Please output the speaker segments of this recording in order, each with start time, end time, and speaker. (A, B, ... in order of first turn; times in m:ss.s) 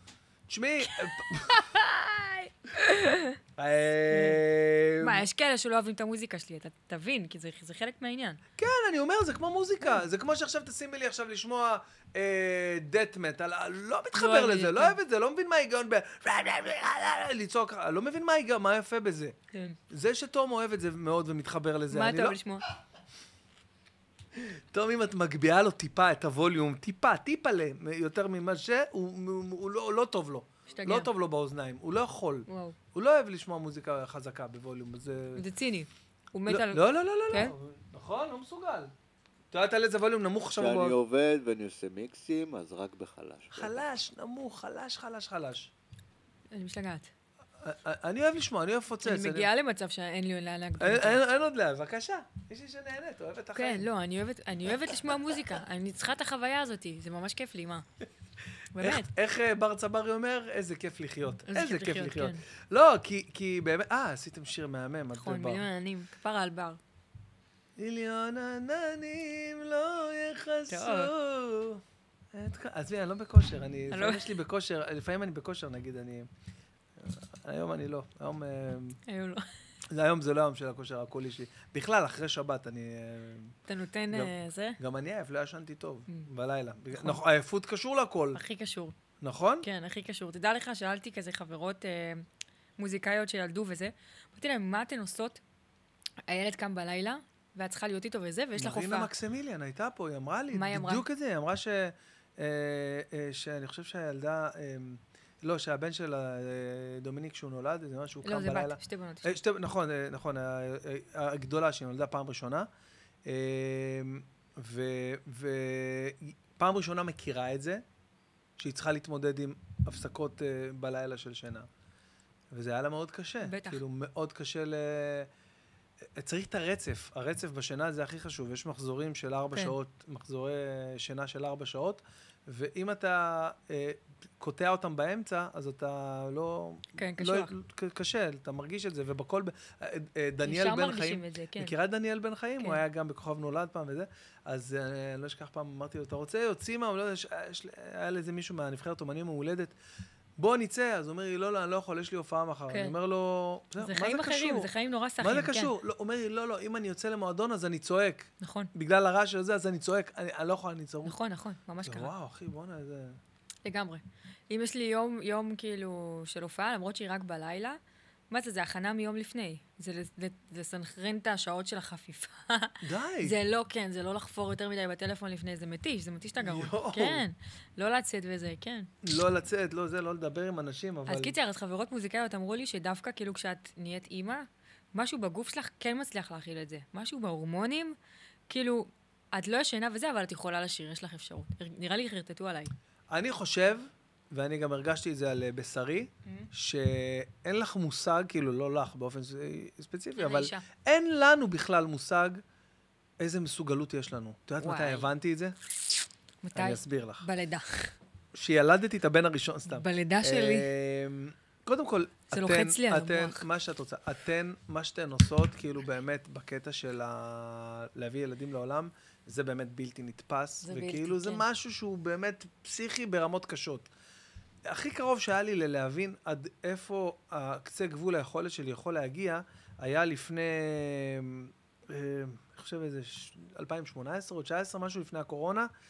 0:00.5-0:01.8 A
0:00.8-0:03.4 B
0:03.6-0:05.2 A
0:04.1-0:04.4 B
0:05.0-0:08.4 B
0:08.6-0:19.4 A
0:14.2-0:15.0 B
0:19.9-0:22.4 A
0:21.9-0:22.6 B
0:24.4-0:35.4 A
0:30.7-0:31.1 B
0:32.5-0:32.8 B
0:35.4-0:37.5 B
0:36.5-0:38.9 A
0:39.5-0:41.0 A
0:40.6-0:43.8 C
0:43.5-0:45.7 A
0:46.5-0:47.1 B
0:47.6-0:49.5 A
0:49.0-0:51.2 B
0:50.8-0:53.9 A
0:53.6-0:57.8 B
0:58.7-0:59.1 B
0:58.8-1:05.7 A
1:01.5-1:02.4 B
1:05.1-1:06.8 B
1:07.8-1:11.8 A
1:10.7-1:11.1 B
1:12.3-1:16.3 A
1:13.9-1:14.3 B
1:17.0-1:19.0 A
1:19.1-1:19.5 B
1:19.9-1:23.6 A
1:23.7-1:24.8 B
1:24.1-1:28.4 A
1:26.9-1:27.2 B
1:28.3-1:29.0 B
1:29.2-1:29.7 A
1:29.6-1:32.2 B
1:32.8-1:35.4 B
1:36.3-1:39.1 B
1:38.6-1:52.7 A
1:40.5-1:41.0 B
1:48.2-1:49.4 B
1:53.3-1:57.8 A
1:58.6-2:01.7 A
2:02.5-2:05.3 A
2:03.4-2:03.8 B
2:06.2-2:29.7 A
2:17.0-2:17.5 B
2:20.4-2:21.8 B
2:30.4-2:34.7 A
2:33.8-2:35.7 B
2:35.2-2:41.2 A
2:38.4-2:38.7 B
2:41.0-2:42.1 B
2:41.8-2:43.2 A
2:43.7-2:47.8 B
2:48.3-2:58.9 B
2:52.8-2:53.4 A
2:56.4-2:57.2 A
2:59.0-3:01.4 A
3:01.1-3:08.0 B
3:08.5-3:12.7 B
3:13.1-3:22.4 A
3:20.2-3:20.6 B
3:23.2-3:25.6 A
3:24.6-3:25.1 B
3:26.4-3:27.9 B
3:26.6-3:27.3 A
3:28.4-3:43.9 A
3:29.7-3:30.7 B
3:32.3-3:33.4 B
3:40.6-3:41.4 B
3:44.7-3:55.7 A